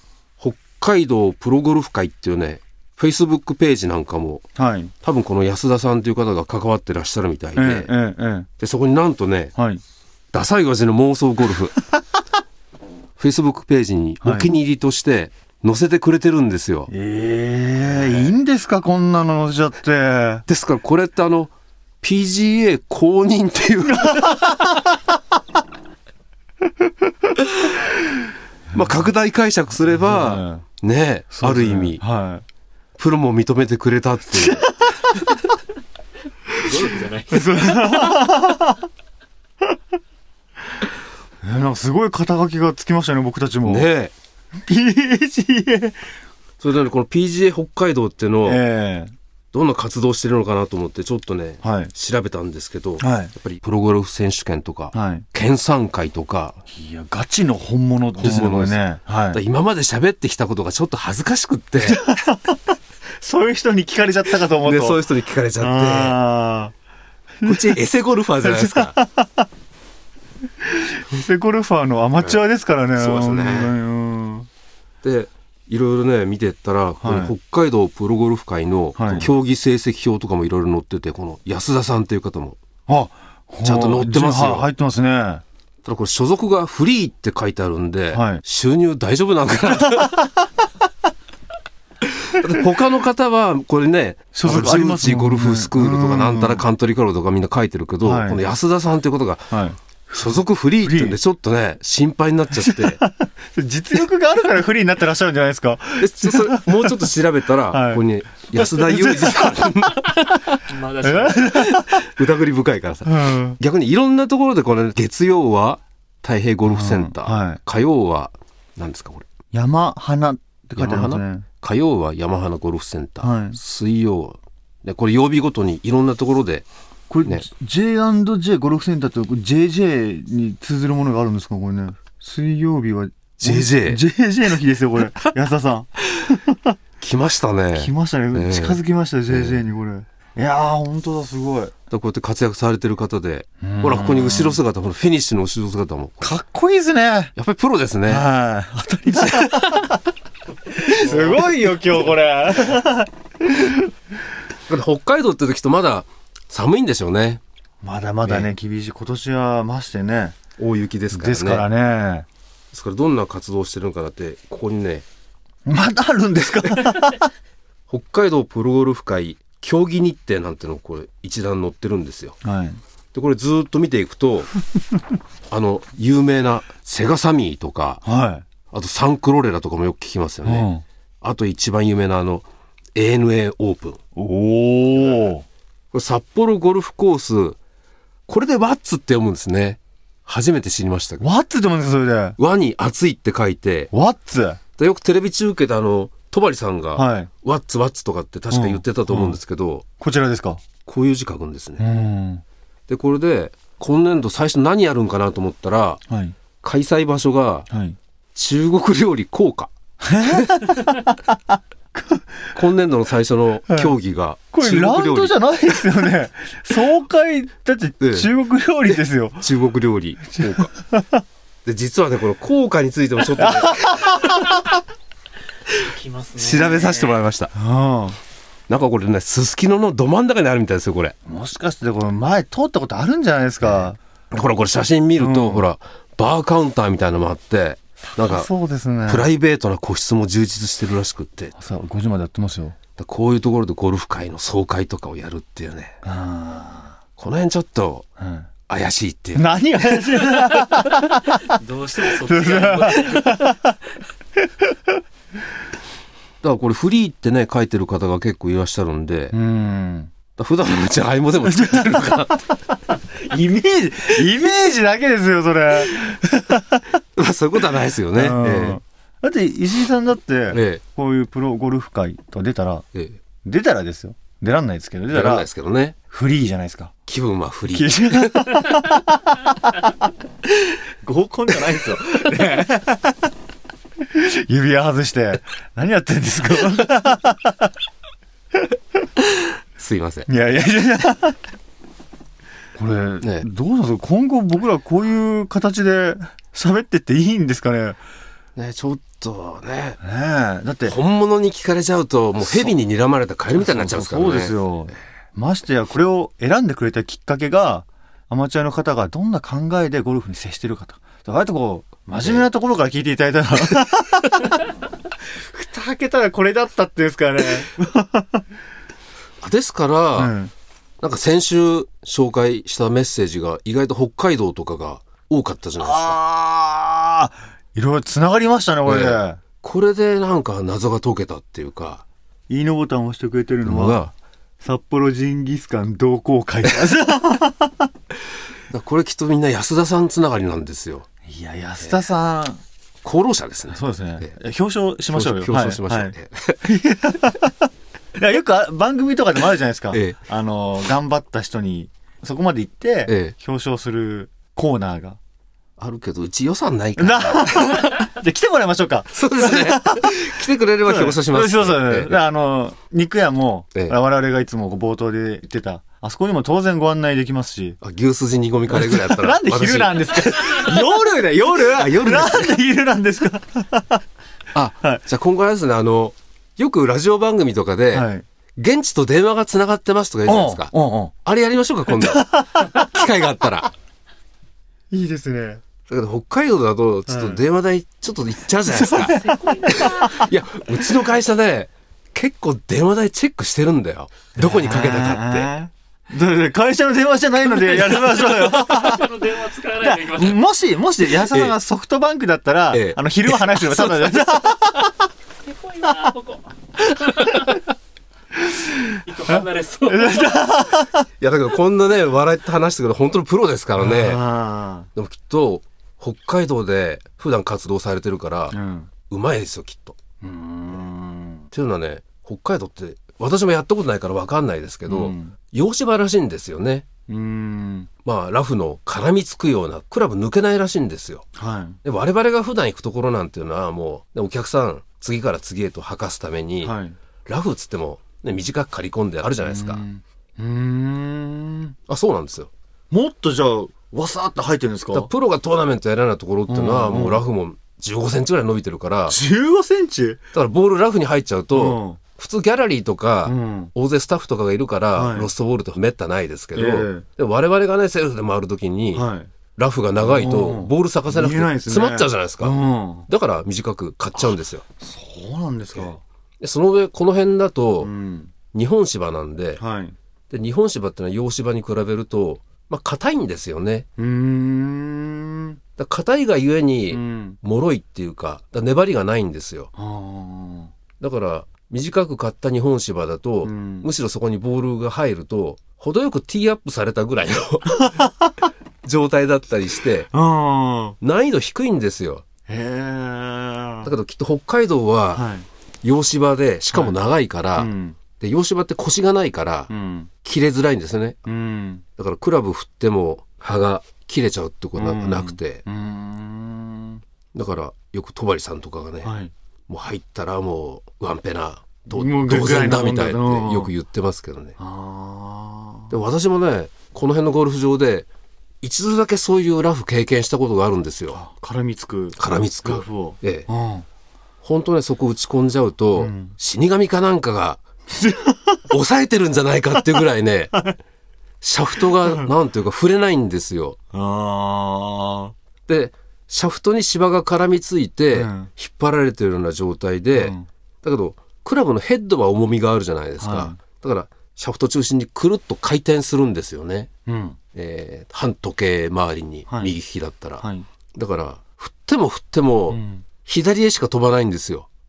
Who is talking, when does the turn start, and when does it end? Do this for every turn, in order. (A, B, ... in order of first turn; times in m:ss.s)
0:00.4-0:04.4 A
0:04.6-0:04.9 B
0:05.0-0:07.9 A
0:07.6-0:08.5 B
0:08.6-0:09.5 A
0:09.6-0:09.8 B
0:10.3-0:11.8 A
0:13.2-0:16.9 A
0:14.2-0:14.5 B
0:16.9-0:20.4 B
0:17.8-0:18.4 A
0:20.5-0:24.4 A
0:23.9-0:24.9 B
0:28.7-0:29.1 B
0:28.7-0:32.0 A
0:29.9-0:30.6 B
0:31.4-0:32.4 B
0:33.0-0:34.6 A
0:34.4-0:35.3 B
0:36.6-0:38.2 C
0:37.3-0:38.8 B
0:41.4-0:43.9 B
0:43.6-0:44.1 A
0:44.7-0:46.0 B
0:46.6-0:48.6 A
0:48.4-0:49.1 B
0:49.5-0:56.6 A
0:51.6-0:51.9 B
0:53.0-0:53.3 B
0:54.9-0:55.3 B
0:56.7-0:59.4 B
0:58.2-1:02.0 A
1:01.9-1:02.6 B
1:03.2-1:05.0 B
1:04.5-1:06.2 A
1:05.6-1:06.7 B
1:07.4-1:07.8 B
1:07.4-1:09.0 A
1:08.4-1:09.5 B
1:10.6-1:14.5 B
1:12.2-1:12.4 A
1:13.0-1:13.8 A
1:15.0-1:22.6 A
1:17.0-1:17.4 B
1:19.0-1:19.3 B
1:22.9-1:25.4 B
1:23.6-1:24.7 A
1:25.8-1:30.3 A
1:28.1-1:28.4 B
1:32.3-1:39.5 A
1:34.3-1:36.6 B
1:38.0-1:38.4 B
1:39.5-1:41.2 B
1:40.1-1:43.0 A
1:42.6-1:47.0 B
1:46.0-1:50.2 A
1:47.7-1:52.1 B
1:50.7-1:51.6 C
1:51.4-1:59.3 A
1:53.1-1:53.6 B
1:56.6-1:57.6 B
1:59.5-2:01.5 B
2:00.8-2:06.7 A
2:03.2-2:03.6 B
2:07.1-2:16.8 B
2:13.4-2:14.0 A
2:17.0-2:19.6 A
2:17.8-2:21.7 B
2:21.9-2:26.3 A
2:23.6-2:24.6 B
2:26.2-2:27.3 B
2:27.4-2:28.3 A
2:28.1-2:30.0 B
2:29.1-2:29.8 A
2:30.7-2:33.8 B
2:31.1-2:31.8 C
2:34.7-2:37.4 A
2:37.8-2:40.4 B
2:38.2-2:38.5 A
2:40.6-2:41.7 A
2:41.1-2:42.3 B
2:42.7-2:45.0 A
2:45.7-2:47.3 B
2:47.9-2:52.4 A
2:52.4-2:52.8 B
2:53.1-2:54.5 A
2:55.5-2:58.0 A
2:58.0-2:58.4 B
2:58.7-3:00.7 A
3:00.4-3:00.8 B
3:01.2-3:04.0 A
3:04.2-3:05.4 B
3:05.9-3:07.6 A
3:08.3-3:11.2 A
3:11.2-3:12.4 B
3:12.4-3:13.9 A
3:13.9-3:14.6 B
3:14.8-3:19.8 A
3:17.0-3:17.3 B
3:18.5-3:19.4 B
3:20.0-3:20.6 B
3:20.9-3:21.8 A
3:21.8-3:22.4 B
3:22.9-3:26.0 A
3:26.1-3:26.4 B
3:26.6-3:27.7 A
3:27.7-3:28.0 B
3:28.4-3:29.7 A
3:30.0-3:31.2 B
3:31.9-3:32.6 B
3:32.6-3:35.4 A
3:34.5-3:39.5 B
3:38.0-3:38.3 A
3:38.9-3:40.7 A
3:40.4-3:41.2 B
3:41.6-3:44.2 A
3:43.4-3:44.6 B
3:45.8-3:47.2 C
3:46.4-3:47.5 A
3:47.5-3:48.2 B
3:48.7-3:51.2 A
3:51.3-3:54.0 B
3:53.6-3:58.5 A
3:55.2-3:55.7 B
3:58.2-3:59.3 B
3:59.1-4:01.6 A
4:01.6-4:02.8 B
4:03.0-4:06.0 A
4:06.0-4:07.0 B
4:07.2-4:08.1 A
4:08.2-4:08.5 B
4:08.7-4:09.5 A
4:09.4-4:11.5 B
4:11.5-4:13.6 C
4:12.1-4:13.8 B
4:16.4-4:19.4 A
4:19.3-4:20.1 B
4:20.4-4:22.3 A
4:21.5-4:22.4 B
4:23.2-4:26.9 B
4:27.2-4:28.8 A
4:28.1-4:32.9 B
4:30.5-4:30.8 A
4:33.4-4:35.5 B
4:35.1-4:36.0 A
4:36.1-4:36.9 B
4:37.1-4:38.8 A
4:37.7-4:39.9 B
4:41.0-4:43.3 B
4:44.1-4:47.7 B
4:49.8-4:50.3 A
4:50.3-4:51.4 B
4:52.8-4:58.0 B
4:53.2-4:53.5 A
4:58.6-5:00.0 A
5:00.0-5:01.0 B
5:00.8-5:04.6 A
5:02.4-5:02.7 B
5:03.5-5:14.6 B
5:12.2-5:12.5 A
5:15.5-5:18.4 B
5:19.4-5:20.4 A
5:20.2-5:20.5 B
5:21.0-5:26.2 A
5:25.8-5:29.4 B
5:28.8-5:32.0 A
5:32.5-5:34.0 B
5:33.6-5:34.1 A
5:34.6-5:37.9 B
5:38.7-5:41.1 A
5:41.3-5:42.6 B
5:43.0-5:44.3 A
5:43.7-5:55.2 B
5:45.1-5:46.7 A
5:49.9-5:50.2 A
5:53.1-5:53.4 A
5:55.8-5:57.8 A
5:57.0-6:07.8 B
5:59.1-6:02.2 A
6:07.8-6:10.7 A
6:08.7-6:14.0 B
6:11.8-6:12.5 A
6:14.5-6:20.7 A
6:17.9-6:18.2 B
6:20.3-6:21.1 B
6:21.2-6:23.7 A
6:22.0-6:22.9 B
6:24.9-6:25.6 B
6:25.9-6:35.5 A
6:27.1-6:27.4 B
6:28.6-6:30.3 B
6:29.1-6:30.2 C
6:34.4-6:39.1 B
6:38.2-6:40.4 C
6:39.9-6:44.9 B
6:41.1-6:41.6 A
6:42.7-6:44.5 A
6:45.4-6:47.6 C
6:48.5-6:51.0 B
6:49.1-6:50.6 C
6:51.2-6:54.2 A
6:53.8-6:54.9 B
6:55.0-6:58.6 A
6:58.5-6:58.9 B
6:59.1-7:00.0 A
7:00.2-7:01.5 B
7:01.5-7:06.8 A
7:04.9-7:05.4 B
7:07.1-7:07.9 B
7:08.0-7:11.3 A
7:11.4-7:11.8 B
7:11.8-7:16.7 A
7:16.6-7:17.0 B
7:17.3-7:19.8 A
7:19.4-7:21.8 B
7:21.9-7:22.5 A
7:22.9-7:25.1 B
7:24.9-7:29.2 A
7:26.5-7:27.2 B
7:29.1-7:30.2 B
7:30.3-7:44.6 A
7:31.5-7:32.0 B
7:33.2-7:33.7 B
7:34.9-7:35.3 B
7:36.6-7:37.1 B
7:38.9-7:39.3 B
7:40.0-7:43.1 B
7:44.2-7:46.0 B
7:46.4-7:47.9 A
7:47.8-7:48.3 B
7:48.5-7:49.6 A
7:49.6-7:50.0 B
7:50.3-7:53.9 A
7:54.0-7:55.6 B
7:55.8-7:59.7 A
7:56.9-7:57.4 B
7:59.8-8:00.7 B
8:01.0-8:07.9 A
8:03.4-8:03.9 B
8:07.8-8:08.1 B
8:08.8-8:10.1 A
8:10.1-8:11.0 B
8:11.0-8:12.2 A
8:12.5-8:13.9 B
8:13.8-8:15.3 A
8:15.1-8:15.5 B
8:15.8-8:19.7 A
8:17.6-8:18.0 B
8:19.7-8:20.1 B
8:20.2-8:21.2 A
8:21.3-8:21.8 B
8:22.0-8:25.6 A
8:24.8-8:27.0 B
8:27.3-8:29.1 A
8:29.0-8:29.3 B
8:29.7-8:34.6 A
8:31.9-8:33.7 B
8:34.6-8:35.9 B
8:35.9-8:38.1 A
8:38.6-8:41.2 A
8:41.1-8:43.9 B
8:42.2-8:43.5 A
8:44.4-8:47.6 A
8:46.0-8:46.4 B
8:47.9-8:48.6 B
8:48.7-8:50.6 A
8:51.4-8:53.8 A
8:53.9-8:55.3 B
8:55.7-9:06.9 A
8:58.1-8:58.5 B
9:00.1-9:00.5 B
9:03.2-9:03.6 B
9:07.1-9:07.4 B
9:07.5-9:14.7 A
9:09.5-9:09.7 B
9:10.4-9:10.7 B
9:12.7-9:13.1 B